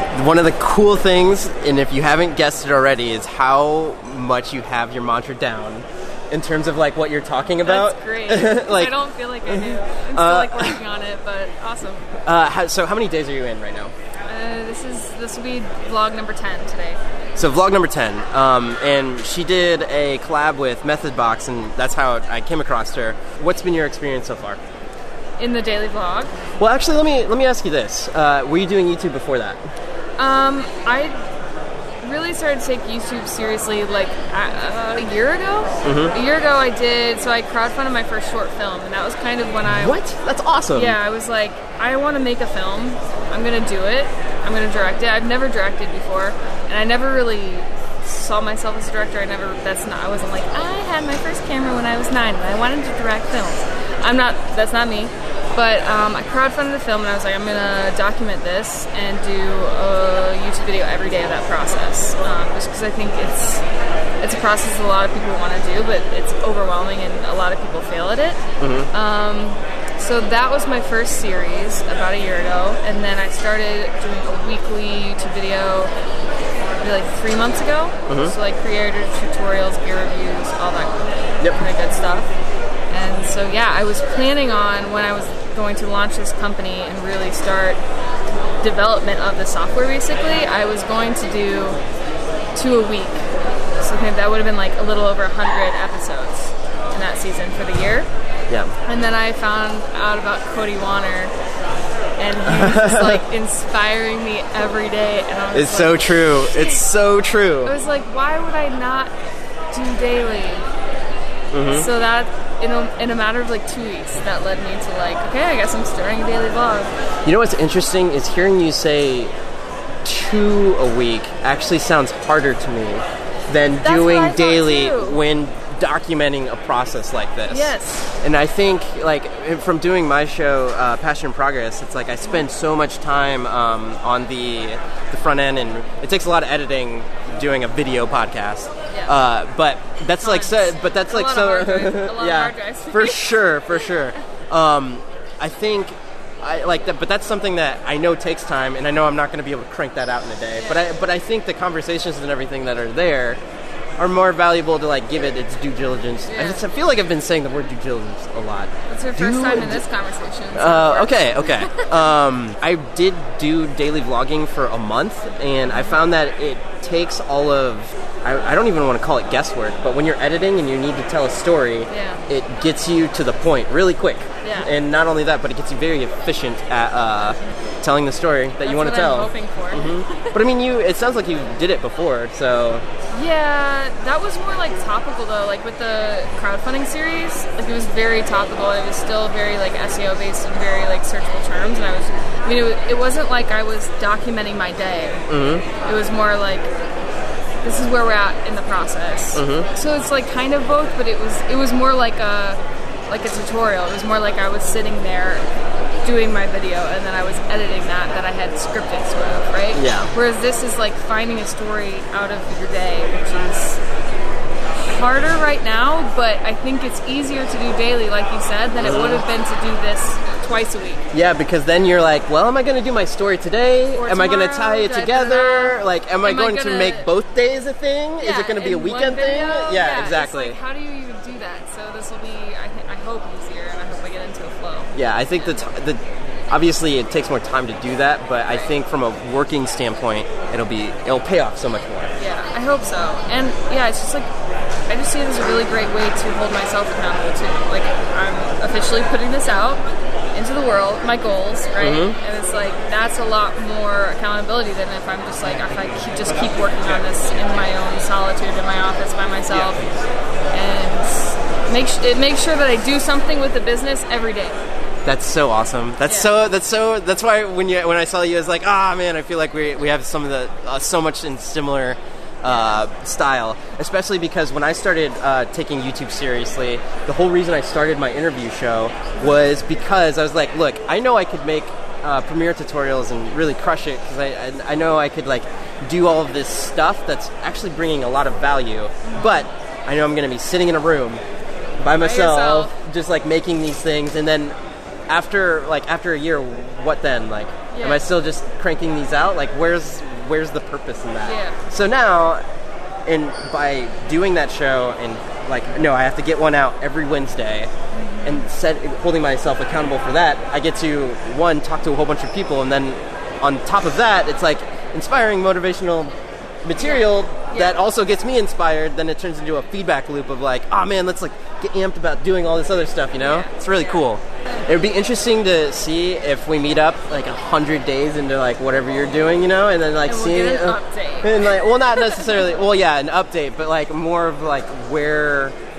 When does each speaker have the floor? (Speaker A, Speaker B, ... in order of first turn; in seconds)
Speaker A: 0.1-8.9, 9.5-10.8, 12.2-13.9, 17.4-24.6, 26.6-29.6, 35.8-36.1, 39.6-41.0, 68.6-68.9, 78.1-78.3, 102.5-103.2, 105.5-107.7, 111.5-111.9, 117.2-119.3, 120.0-153.4, 154.0-159.8, 160.5-182.8, 195.3-195.7, 199.3-199.7, 209.7-210.1, 218.8-219.2, 221.1-230.6, 234.9-242.1, 251.8-252.2, 265.0-291.2, 291.8-294.5, 295.1-302.4, 303.1-307.7, 308.2-316.1, 316.6-335.5
Speaker B: 7.6-12.1, 14.3-17.0, 25.4-26.3, 30.2-31.1, 32.0-40.0, 40.7-63.6, 64.2-75.9, 76.8-82.3, 82.9-87.8, 88.6-91.8, 92.5-93.3, 93.8-98.1, 98.8-101.3, 102.2-106.8, 107.6-109.1, 109.7-110.6, 111.6-116.9, 123.8-125.2, 127.5-128.1, 138.9-139.2, 140.2-144.1, 150.6-150.9, 156.3-156.6, 158.9-161.9, 165.7-166.0, 171.9-172.2, 174.4-174.7, 178.6-180.4, 183.1-196.7, 197.6-205.5, 206.0-213.8, 214.8-221.0, 223.9-227.1, 228.2-234.9, 242.2-244.3, 244.9-249.8, 250.3-259.9, 260.5-264.6, 266.0-266.3, 289.0-289.4, 291.9-292.8, 297.7-298.1, 301.2-301.6, 307.9-308.5, 316.8-317.8, 323.1-324.0, 330.0-332.4